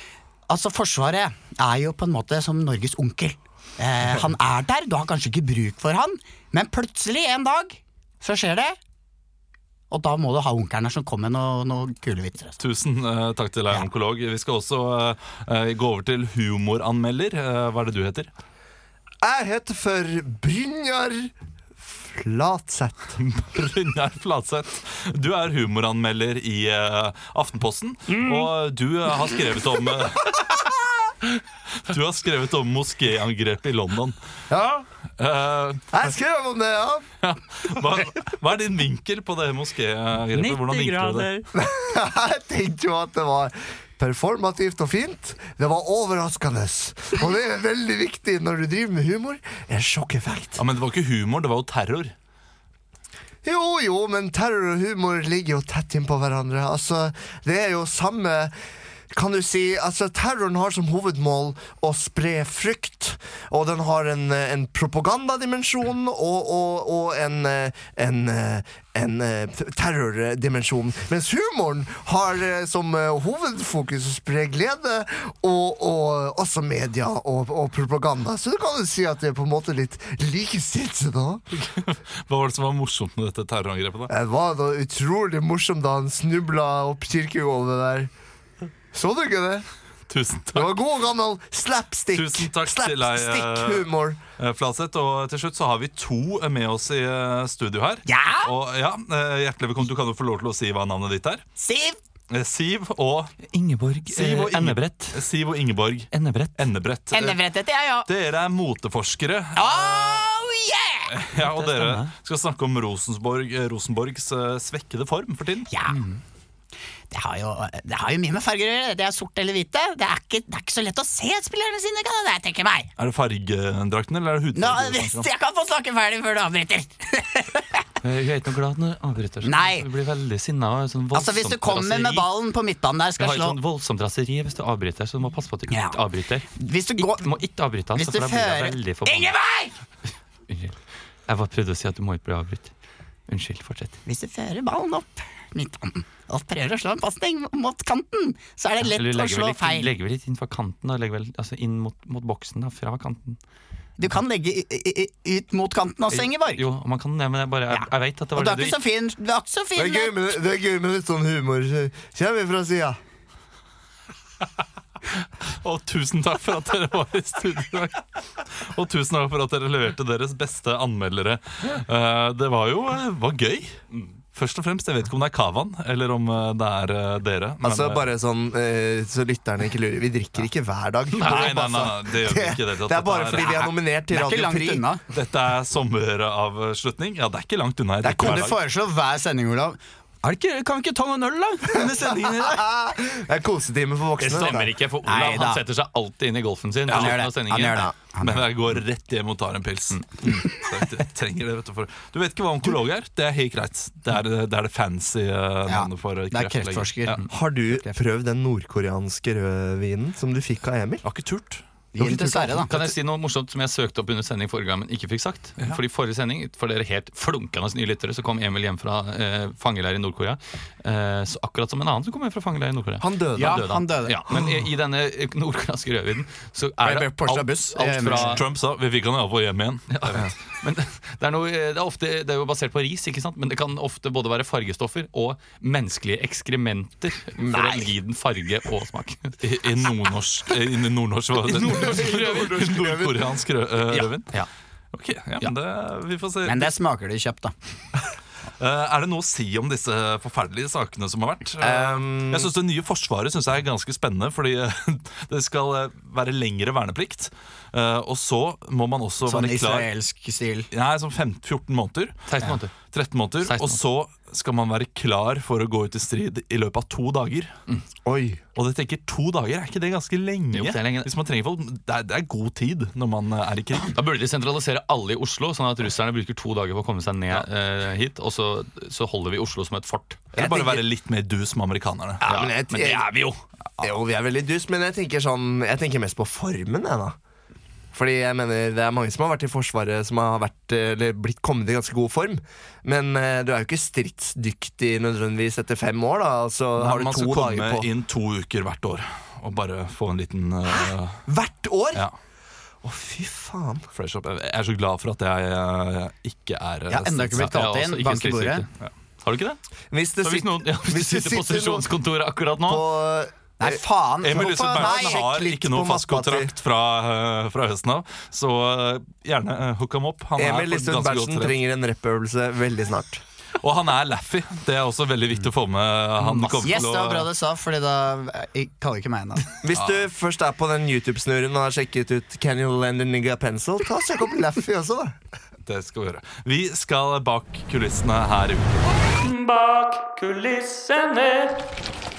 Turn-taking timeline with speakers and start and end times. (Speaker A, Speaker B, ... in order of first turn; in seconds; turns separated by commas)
Speaker A: 0.5-8.8, Speaker A: 9.9-12.6, Speaker B: 12.6-18.3, Speaker C: 19.2-23.2, Speaker B: 23.2-30.7, Speaker B: 31.9-34.2, Speaker A: 34.5-34.8, Speaker B: 35.2-35.9, Speaker C: 35.9-37.1, Speaker B: 37.2-41.3, Speaker A: 40.3-41.5, Speaker C: 41.5-50.6, Speaker B: 50.6-52.1, Speaker C: 53.4-58.5, Speaker C: 59.1-81.6, Speaker B: 81.6-84.1, Speaker C: 84.1-88.1, Speaker C: 88.9-89.7, Speaker B: 90.1-90.7, Speaker C: 90.5-94.2, Speaker B: 92.1-101.4, Speaker A: 98.1-98.5, Speaker A: 101.6-102.0, Speaker B: 102.3-103.3, Speaker D: 103.5-105.2, Speaker B: 104.1-107.4, Speaker D: 106.1-106.7, Speaker A: 107.1-108.1, Speaker B: 108.1-110.3, Speaker A: 109.6-111.1, Speaker B: 111.1-115.7, Speaker D: 111.6-112.1, Speaker A: 115.7-116.2, Speaker A: 117.1-122.9, Speaker B: 123.0-125.3, Speaker A: 124.5-127.8, Speaker D: 128.0-132.3, Speaker A: 129.4-129.9, Speaker A: 131.1-133.6, Speaker D: 133.2-139.3, Speaker A: 135.7-136.0, Speaker A: 136.6-137.3, Speaker A: 137.9-139.8, Speaker D: 140.5-140.8, Speaker D: 141.3-142.7, Speaker D: 143.3-144.0, Speaker A: 144.1-149.9, Speaker D: 148.8-153.4, Speaker A: 154.0-156.6, Speaker D: 156.1-158.8, Speaker A: 157.7-160.2, Speaker C: 159.8-163.0, Speaker B: 165.6-173.8, Speaker B: 174.3-178.1, Speaker C: 177.6-184.8, Speaker B: 181.2-183.7, Speaker A: 183.4-185.0, Speaker B: 185.1-188.6, Speaker C: 188.0-188.5, Speaker A: 188.1-192.6, Speaker C: 191.7-194.8, Speaker D: 194.2-197.9, Speaker A: 195.0-195.6, Speaker B: 196.9-197.2, Speaker A: 196.9-198.5, Speaker B: 198.2-207.3, Speaker A: 205.7-208.0, Speaker C: 207.3-211.0, Speaker B: 211.0-211.6, Speaker A: 211.9-212.7, Speaker C: 212.0-212.4, Speaker D: 212.6-228.5, Speaker C: 223.0-223.7, Speaker A: 223.3-224.3, Speaker A: 226.8-228.4, Speaker B: 228.0-230.3, Speaker D: 229.9-239.4, Speaker C: 237.5-237.8, Speaker B: 239.4-244.3, Speaker D: 241.4-243.1, Speaker C: 241.9-243.3, Speaker D: 243.9-244.5, Speaker B: 244.9-246.7, Speaker A: 246.4-247.5, Speaker B: 248.6-259.9, Speaker C: 251.6-252.5, Speaker A: 259.2-260.7, Speaker B: 260.7-262.2, Speaker D: 262.3-262.7, Speaker B: 262.8-267.5, Speaker D: 263.4-263.8, Speaker C: 268.1-268.4, Speaker B: 268.6-274.0, Speaker D: 270.5-271.1, Speaker D: 273.9-280.3, Speaker C: 280.3-280.9, Speaker B: 280.3-282.3, Speaker C: 282.2-283.1, Speaker D: 282.2-283.4, Speaker C: 283.8-287.2, Speaker C: 287.9-297.9, Speaker B: 296.8-301.2, Speaker C: 300.7-302.1, Speaker C: 302.8-303.9, Speaker B: 303.9-307.5, Speaker A: 306.9-308.7, Speaker D: 307.4-308.7, Speaker D: 309.2-309.6, Speaker C: 309.9-311.9, Speaker D: 310.2-312.9, Speaker C: 312.6-316.5, Speaker A: 313.6-315.4, Speaker B: 314.2-321.6, Speaker C: 320.4-323.2, Speaker B: 323.6-327.3, Speaker D: 326.2-326.8, Speaker A: 326.6-329.5, Speaker C: 329.6-335.2, Speaker B: 329.7-330.0, Speaker B: 335.7-339.0, Speaker D: 339.2-341.6